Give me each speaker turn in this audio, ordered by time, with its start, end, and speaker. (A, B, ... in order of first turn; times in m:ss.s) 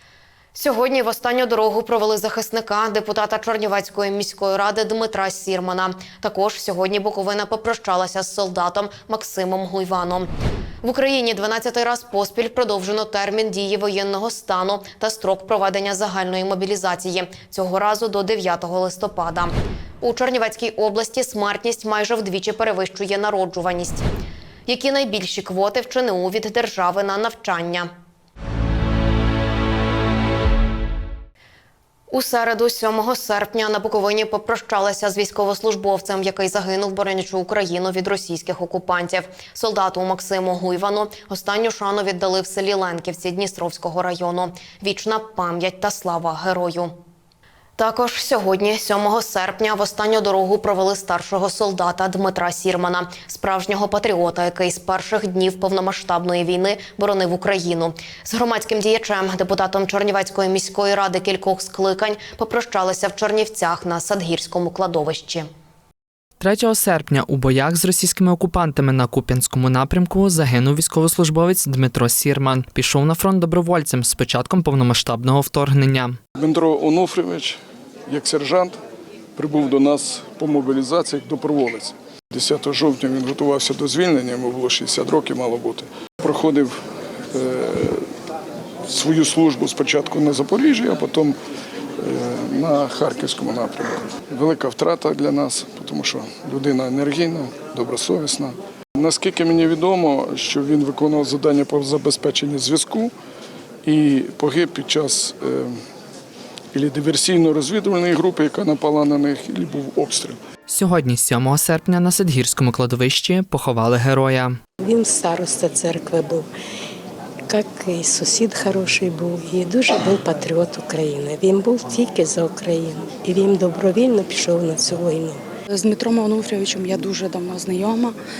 0:00.5-0:10.3 A
0:10.8-0:24.0 A
0:24.6-0:27.9 A
0:32.1-0:46.9 A
0:47.8-1:05.5 A
1:06.4-1:16.2 B
1:16.4-1:18.8 C
1:19.4-1:26.8 C
1:27.3-1:28.0 C
1:28.9-1:31.4 C
1:32.0-1:43.1 C
1:43.8-1:45.8 C
1:46.7-1:50.4 C
1:50.7-1:54.6 B
1:54.8-1:56.4 D
1:57.5-2:05.4 D
2:05.7-2:08.2 E